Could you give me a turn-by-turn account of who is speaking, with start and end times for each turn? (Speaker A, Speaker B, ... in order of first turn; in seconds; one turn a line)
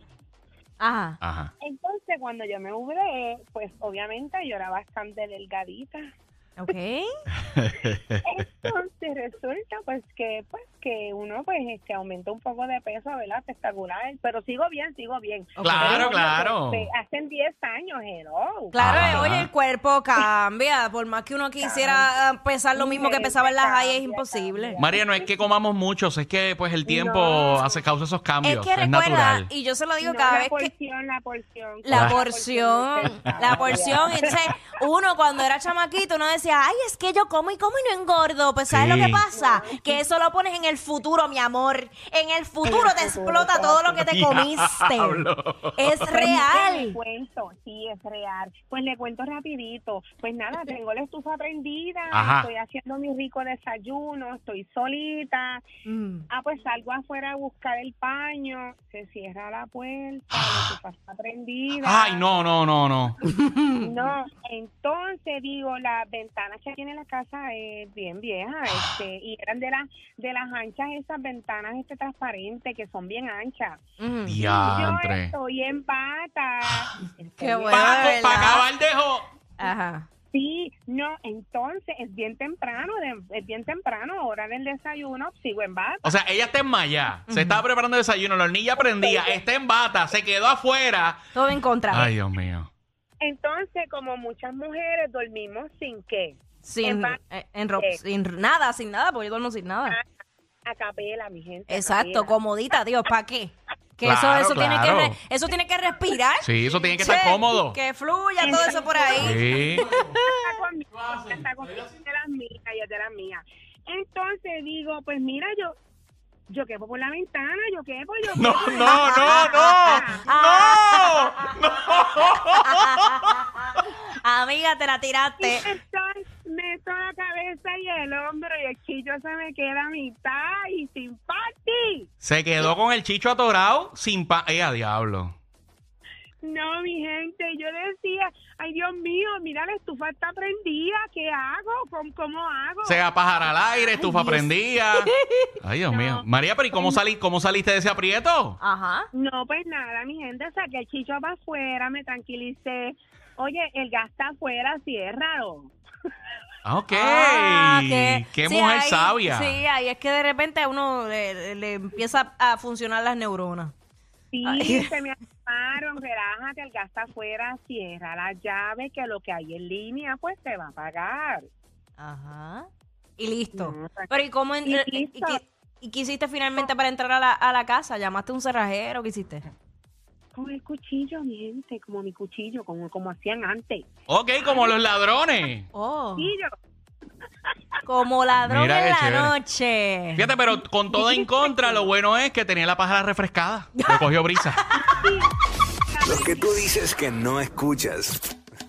Speaker A: 0.8-1.2
Speaker B: 1.2-1.5
Speaker C: 1.6-6.1
Speaker A: 6.6-7.1
Speaker B: 7.5-8.2
Speaker C: 8.2-19.2
Speaker A: 15.6-16.1
Speaker B: 15.6-16.9
Speaker A: 18.7-24.8
Speaker B: 18.8-19.5
Speaker C: 21.6-22.1
Speaker C: 22.7-25.3
Speaker B: 24.8-29.5
Speaker C: 26.9-27.8
Speaker A: 28.4-30.7
Speaker C: 30.0-34.5
Speaker A: 31.8-47.0
Speaker B: 31.9-32.2
Speaker B: 38.7-39.2
Speaker C: 39.3-40.0
Speaker C: 42.6-44.0
Speaker B: 44.1-46.0
Speaker C: 46.1-55.6
Speaker B: 52.1-52.5
Speaker A: 55.9-56.2
Speaker C: 56.3-62.3
Speaker B: 60.3-60.7
Speaker B: 61.7-63.2
Speaker A: 63.2-63.9
Speaker C: 63.8-73.8
Speaker B: 68.7-68.9
Speaker A: 74.0-74.4
Speaker B: 74.3-75.3
Speaker C: 74.3-78.2
Speaker A: 77.4-78.7
Speaker B: 77.7-79.3
Speaker A: 79.6-80.0
Speaker C: 80.3-86.0
Speaker B: 86.0-91.2
Speaker A: 87.3-87.6
Speaker C: 88.8-89.4
Speaker A: 91.3-92.1
Speaker B: 91.9-92.7
Speaker C: 93.2-97.2
Speaker A: 96.6-100.0
Speaker C: 100.6-102.3
Speaker A: 101.7-106.5
Speaker B: 104.0-105.2
Speaker B: 106.4-107.8
Speaker A: 107.0-110.4
Speaker C: 108.4-115.7
Speaker B: 109.2-110.2
Speaker C: 116.5-120.2
Speaker B: 118.3-123.4
Speaker A: 118.8-121.5
Speaker A: 122.6-123.4
Speaker A: 124.1-125.6
Speaker C: 125.4-132.1
Speaker B: 132.2-135.3
Speaker C: 136.4-143.0
Speaker B: 142.8-148.6
Speaker A: 143.9-145.5
Speaker C: 145.9-147.0
Speaker A: 148.6-149.1
Speaker C: 149.1-155.7
Speaker B: 156.6-159.6
Speaker A: 156.9-163.7
Speaker C: 164.3-171.4
Speaker A: 164.4-164.9
Speaker A: 172.0-179.4
Speaker C: 173.5-174.1
Speaker C: 174.6-175.4
Speaker C: 180.3-183.9
Speaker B: 184.1-185.7
Speaker C: 184.4-184.8
Speaker A: 185.7-186.3
Speaker C: 186.2-186.5
Speaker A: 187.8-190.3
Speaker B: 188.4-189.3
Speaker B: 190.1-194.6
Speaker C: 190.9-191.9
Speaker A: 194.6-194.9
Speaker C: 194.7-195.3
Speaker C: 195.9-196.7
Speaker D: 196.0-198.2